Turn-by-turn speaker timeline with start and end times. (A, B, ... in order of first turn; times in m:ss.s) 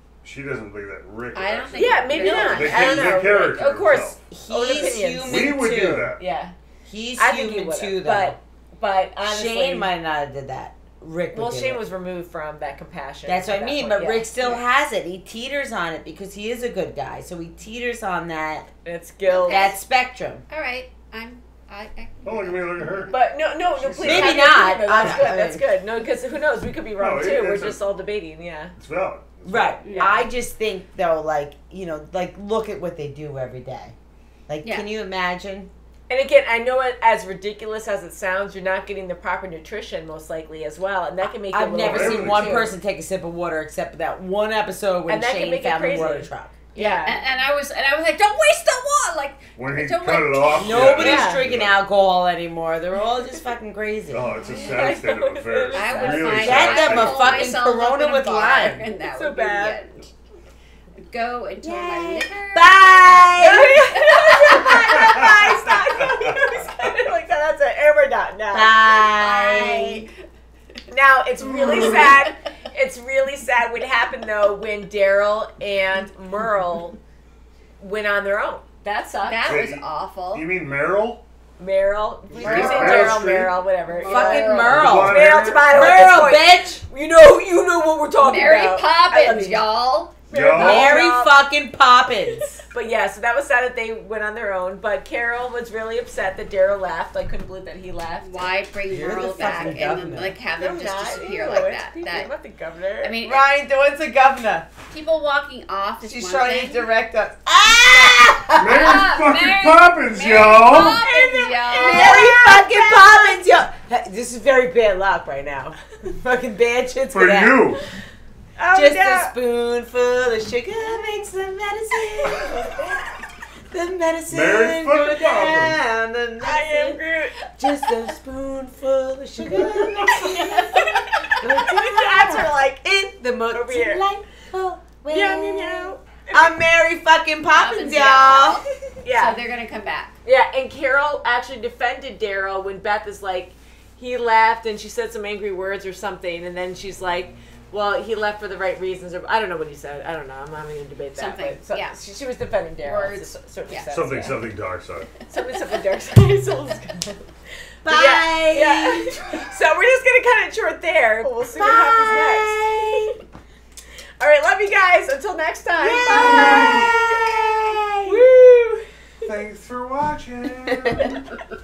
0:00.2-0:04.2 A
0:01.3-0:03.2 B
0:01.7-0:05.6 C
0:02.4-0:03.2 D
0:04.3-0:06.1 D
0:05.3-0:06.2 A
0:06.2-0:06.5 C
0:06.8-0:08.4 D
0:07.2-0:09.9 C
0:09.2-0:11.8 D
0:11.3-0:14.6 C
0:13.3-0:18.7 D
0:18.8-0:19.7 C
0:19.3-0:19.8 B
0:19.4-0:20.4 D
0:20.5-0:23.2 B
0:22.2-0:23.1 A
0:23.1-0:28.7 C
0:23.8-0:24.5 A
0:24.0-0:25.6 D
0:27.0-0:27.8 A
0:28.8-0:29.9 A
0:29.5-0:34.0 D
0:29.8-0:30.2 B
0:34.5-0:35.7 D
0:34.6-0:34.9 B
0:36.1-0:42.7 C
0:41.5-0:46.6 D
0:41.8-0:42.7 A
0:45.1-0:47.2 C
0:46.8-0:51.1 B
0:49.6-0:51.8 A
0:50.5-0:54.4 D
0:50.9-0:51.5 C
0:54.1-0:57.6 A
0:54.4-0:55.0 B
0:54.6-0:56.5 C
0:55.7-1:00.1 B
0:56.2-0:58.9 D
0:59.1-0:59.8 C
1:01.0-1:05.4 B
1:01.6-1:03.8 D
1:03.4-1:08.8 C
1:08.5-1:10.1 D
1:09.0-1:10.1 B
1:10.9-1:17.0 C
1:17.8-1:19.6 C
1:19.2-1:20.5 B
1:19.4-1:21.2 A
1:21.6-1:29.7 C
1:22.3-1:23.6 A
1:22.4-1:23.3 D
1:22.4-1:23.1 B
1:24.0-1:24.9 B
1:24.0-1:26.8 D
1:24.6-1:26.2 A
1:28.2-1:30.2 B
1:30.3-1:31.4 C
1:30.3-1:31.0 A
1:30.5-1:32.6 D
1:32.7-1:38.5 C
1:38.2-1:42.3 B
1:38.9-1:40.4 D
1:39.4-1:39.7 C
1:40.6-1:43.2 C
1:43.0-1:43.4 B
1:43.2-1:44.7 D
1:44.9-1:46.9 B
1:46.0-1:49.2 D
1:47.8-1:52.4 B
1:48.6-1:51.1 A
1:50.7-1:53.4 C
1:51.7-1:57.8 D
1:57.1-1:57.8 A
1:58.6-1:59.4 C
1:58.7-2:02.9 D
2:03.7-2:07.0 D
2:04.3-2:05.8 A
2:06.4-2:07.4 C
2:07.6-2:10.8 D
2:10.1-2:14.0 C
2:11.4-2:18.6 D
2:15.1-2:16.0 C
2:17.5-2:20.2 B
2:19.0-2:19.4 C
2:20.2-2:34.4 C
2:31.2-2:32.0 B
2:32.8-2:33.9 B
2:33.9-2:35.1 A
2:35.3-2:37.3 C
2:37.8-2:39.2 D
2:37.8-2:43.1 C
2:41.5-2:43.2 D
2:44.2-2:47.0 C
2:45.8-2:48.2 D
2:48.0-2:48.9 C
2:49.2-2:51.2 A
2:50.7-2:51.2 D